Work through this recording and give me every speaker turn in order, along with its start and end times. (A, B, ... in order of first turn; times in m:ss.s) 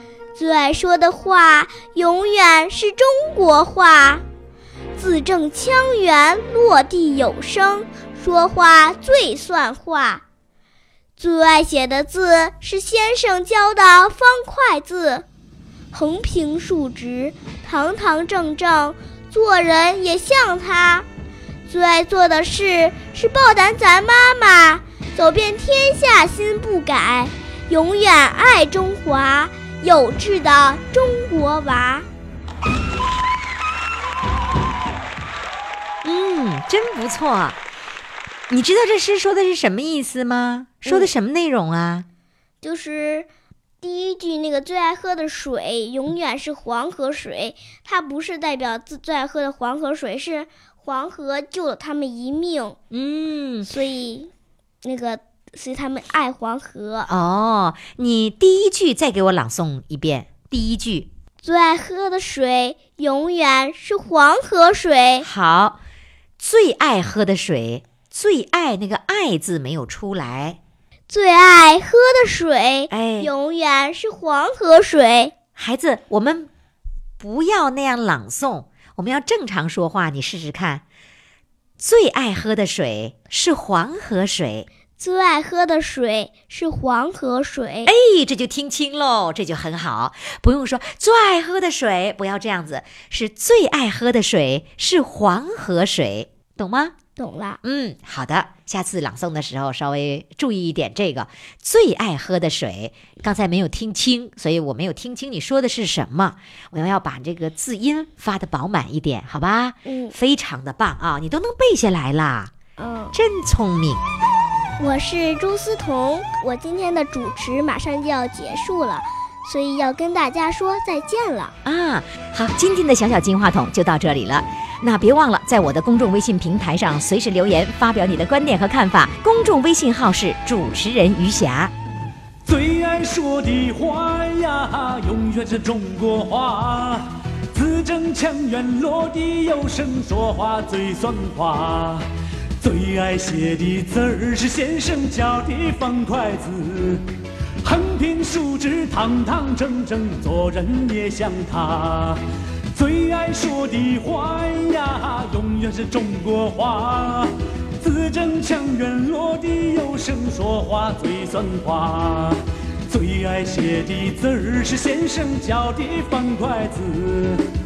0:00.3-0:04.2 A
0:05.0-0:10.2 A
0:11.2-0:15.2 A
0:15.9-0:21.1 A
0:21.7-0:32.1 A
0:36.0-0:37.6 B
0:38.5-0:42.0 B
0:40.8-0:41.1 A
0:42.6-0:43.3 A
0:43.8-0:52.8 A
0:52.9-0:53.7 B
0:53.7-0:54.3 A
0:54.8-0:57.1 A
0:57.1-1:01.1 B
1:01.4-1:05.3 A
1:05.2-1:05.8 B
1:06.4-1:10.6 B
1:11.1-1:15.3 A
1:12.9-1:13.3 B
1:15.5-1:16.5 B
1:17.2-1:20.8 B
1:21.8-1:24.7 B
1:25.0-1:27.9 A
1:27.8-1:37.0 B
1:37.2-1:37.6 A
1:37.6-1:52.5 B
1:49.8-1:50.2 A
1:52.8-1:53.2 A
1:53.1-1:54.0 B
1:54.8-2:01.5 A
2:01.6-2:11.7 B
2:12.5-2:22.0 C
2:22.6-2:27.0 C
2:27.6-2:32.2 C
2:32.7-2:47.4 C